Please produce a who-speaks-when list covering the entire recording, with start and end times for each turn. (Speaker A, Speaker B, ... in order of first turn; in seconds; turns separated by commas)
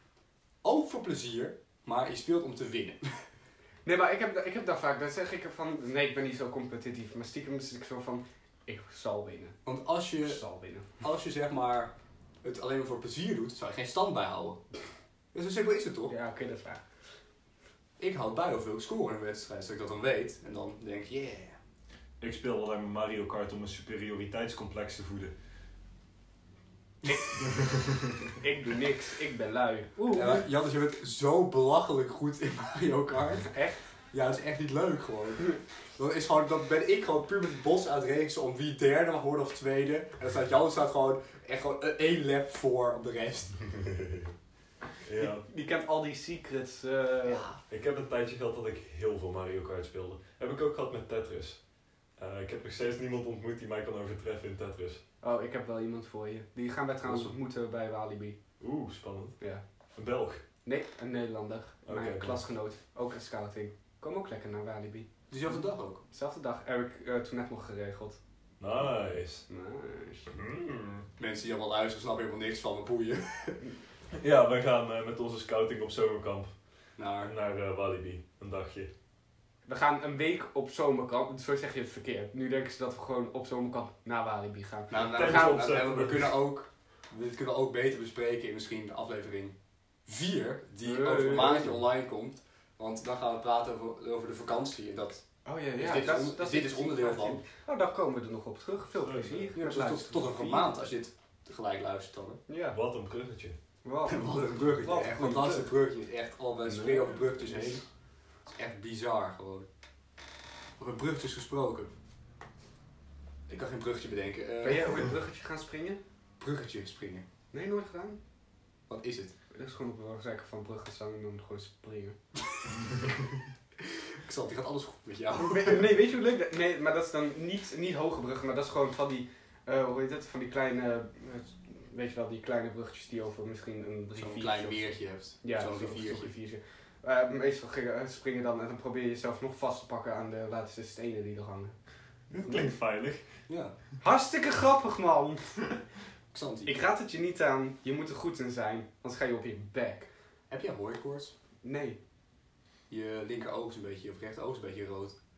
Speaker A: 0.6-3.2, Speaker B: 3.8-9.6, Speaker A: 9.6-14.6, Speaker B: 10.2-10.9, Speaker A: 15.3-16.1, Speaker B: 16.1-16.8, Speaker A: 18.0-21.6, Speaker C: 22.2-25.3, Speaker C: 27.4-28.3, Speaker B: 28.4-30.4, Speaker A: 30.1-33.6, Speaker B: 33.5-33.8, Speaker A: 34.1-43.9, Speaker C: 45.0-45.4, Speaker B: 45.2-47.5, Speaker A: 47.2-47.6, Speaker C: 47.7-51.6, Speaker C: 52.1-55.0, Speaker B: 55.2-58.4, Speaker C: 57.0-57.3, Speaker C: 58.6-59.4, Speaker C: 59.9-60.4, Speaker B: 60.6-65.1, Speaker C: 61.8-62.4, Speaker A: 65.3-66.0, Speaker B: 66.0-68.2, Speaker C: 68.6-69.5, Speaker B: 69.5-70.3, Speaker C: 70.3-71.1, Speaker A: 71.2-73.7, Speaker C: 74.2-76.5, Speaker A: 77.0-77.3, Speaker C: 77.2-78.9, Speaker B: 79.7-85.6, Speaker A: 84.9-89.5, Speaker C: 85.0-86.3, Speaker A: 90.0-97.4, Speaker B: 90.8-91.8, Speaker B: 95.4-100.7, Speaker C: 99.0-99.5, Speaker A: 99.6-102.4, Speaker B: 102.5-102.8, Speaker C: 102.7-103.5, Speaker B: 103.8-105.7, Speaker A: 104.1-107.8, Speaker B: 106.7-107.8, Speaker A: 108.5-109.7, Speaker A: 110.8-111.9, Speaker A: 113.5-115.1, Speaker B: 114.6-116.0, Speaker A: 116.4-117.2, Speaker B: 117.5-118.2, Speaker A: 118.9-119.3, Speaker B: 119.5-122.2, Speaker A: 124.2-125.9, Speaker B: 125.3-141.8, Speaker A: 134.1-136.3, Speaker C: 142.3-143.3, Speaker B: 142.4-142.7, Speaker A: 143.5-143.7, Speaker B: 144.0-145.8, Speaker A: 146.3-146.7, Speaker B: 146.6-150.1, Speaker A: 150.5-151.3, Speaker B: 151.6-152.0, Speaker A: 152.9-155.2